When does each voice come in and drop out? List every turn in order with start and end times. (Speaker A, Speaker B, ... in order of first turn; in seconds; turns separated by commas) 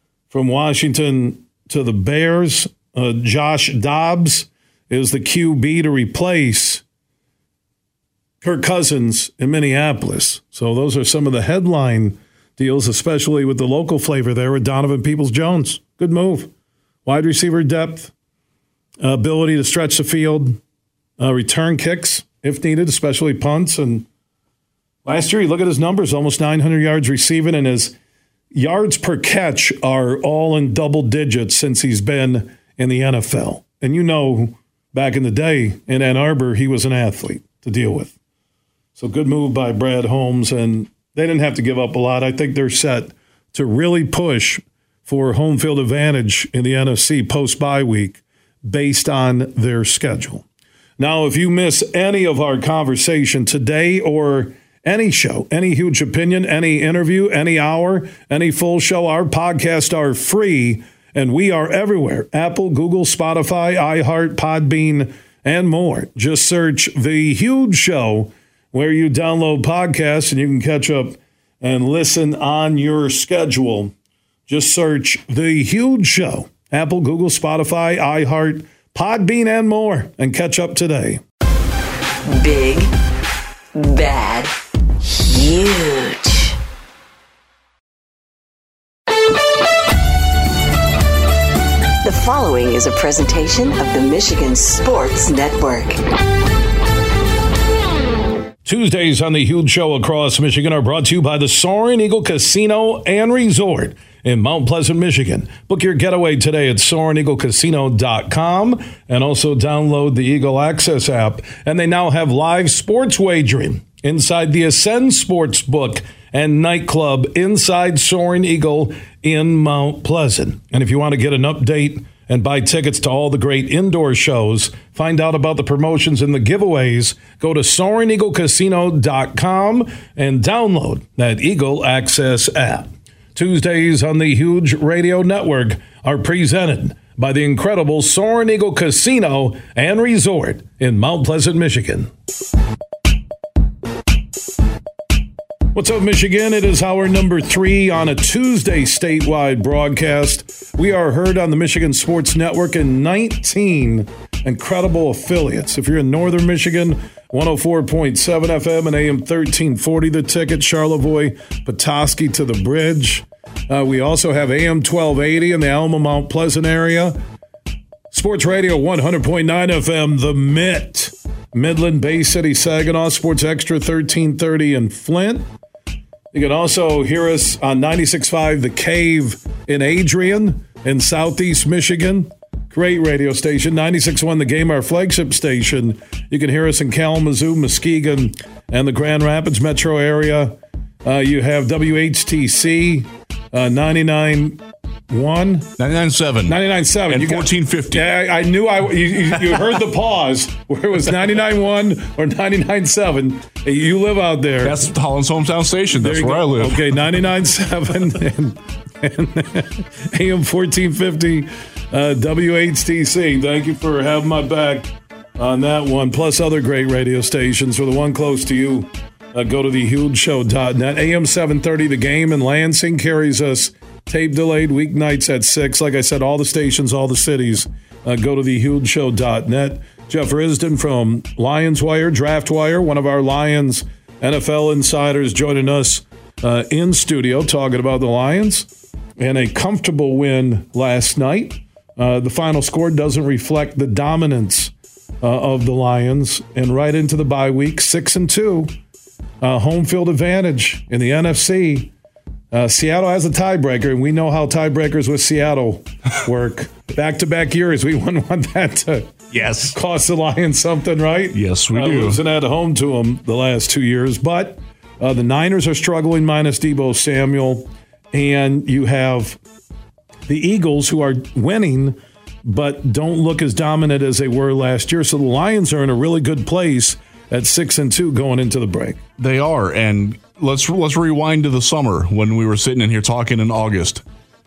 Speaker A: 0.3-6.8, Speaker A: 8.4-16.5, Speaker A: 17.1-18.1, Speaker A: 19.0-20.6, Speaker A: 21.2-24.1, Speaker A: 25.1-27.9, Speaker A: 28.5-38.1, Speaker A: 39.0-50.5, Speaker A: 51.0-73.9, Speaker A: 74.5-81.2, Speaker B: 82.2-82.9, Speaker B: 83.7-86.6, Speaker B: 92.0-96.0, Speaker A: 98.7-142.1, Speaker A: 145.7-167.2, Speaker A: 168.1-175.5, Speaker A: 176.3-195.7, Speaker C: 195.8-198.1, Speaker A: 196.5-204.9, Speaker C: 204.6-206.9, Speaker A: 206.0-248.7, Speaker A: 249.4-251.9, Speaker A: 252.5-259.1, Speaker C: 259.3-259.8, Speaker A: 259.7-269.4, Speaker C: 261.3-262.2, Speaker A: 270.3-279.0, Speaker C: 279.2-284.0